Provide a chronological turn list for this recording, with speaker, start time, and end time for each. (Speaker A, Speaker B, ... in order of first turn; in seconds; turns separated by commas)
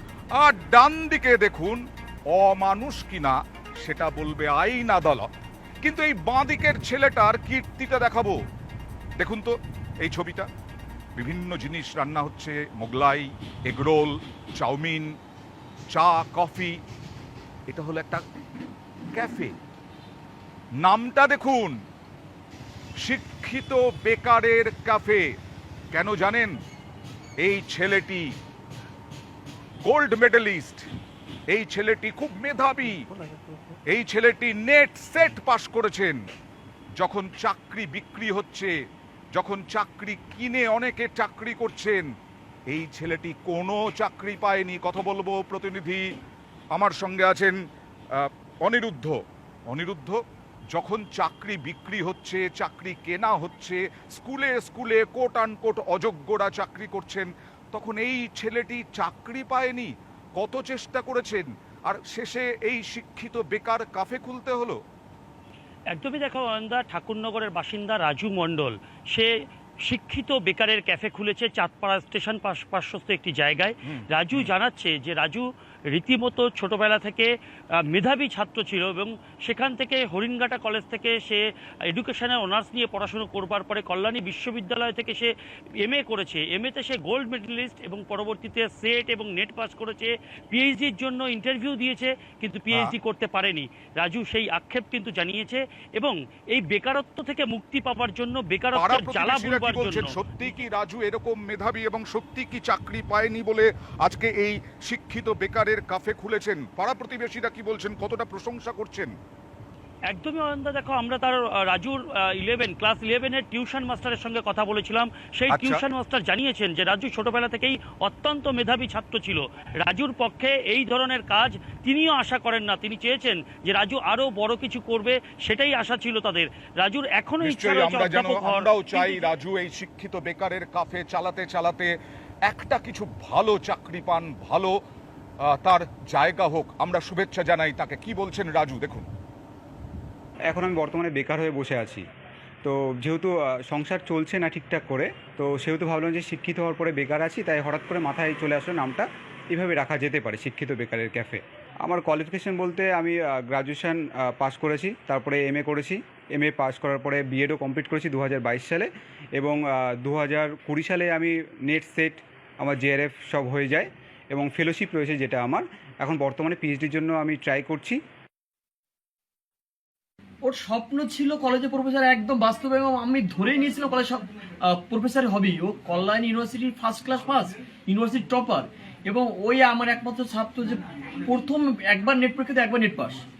Speaker A: 0.4-1.8, Speaker A: 2.3-5.3, Speaker A: 5.8-8.4, Speaker A: 9.2-10.5, Speaker A: 11.2-15.1, Speaker A: 15.9-16.8, Speaker A: 17.7-18.2, Speaker A: 19.1-19.5, Speaker A: 20.8-21.8, Speaker A: 23.0-25.2, Speaker A: 25.9-26.6, Speaker A: 27.4-28.3, Speaker A: 29.8-30.8, Speaker A: 31.5-33.0, Speaker A: 33.9-36.2, Speaker A: 37.0-38.7, Speaker A: 39.3-42.1, Speaker A: 42.7-46.0, Speaker A: 46.7-47.6, Speaker A: 48.2-49.2, Speaker A: 49.7-50.2, Speaker A: 50.7-64.8, Speaker B: 65.9-69.3, Speaker B: 69.8-77.3, Speaker A: 73.9-74.5, Speaker B: 77.9-85.3, Speaker B: 85.8-100.2, Speaker A: 98.8-109.1, Speaker B: 110.1-129.3, Speaker A: 115.5-115.8, Speaker A: 127.4-131.9, Speaker A: 132.5-134.7, Speaker A: 135.5-139.1, Speaker C: 140.5-142.0, Speaker C: 142.6-168.0, Speaker D: 170.4-183.2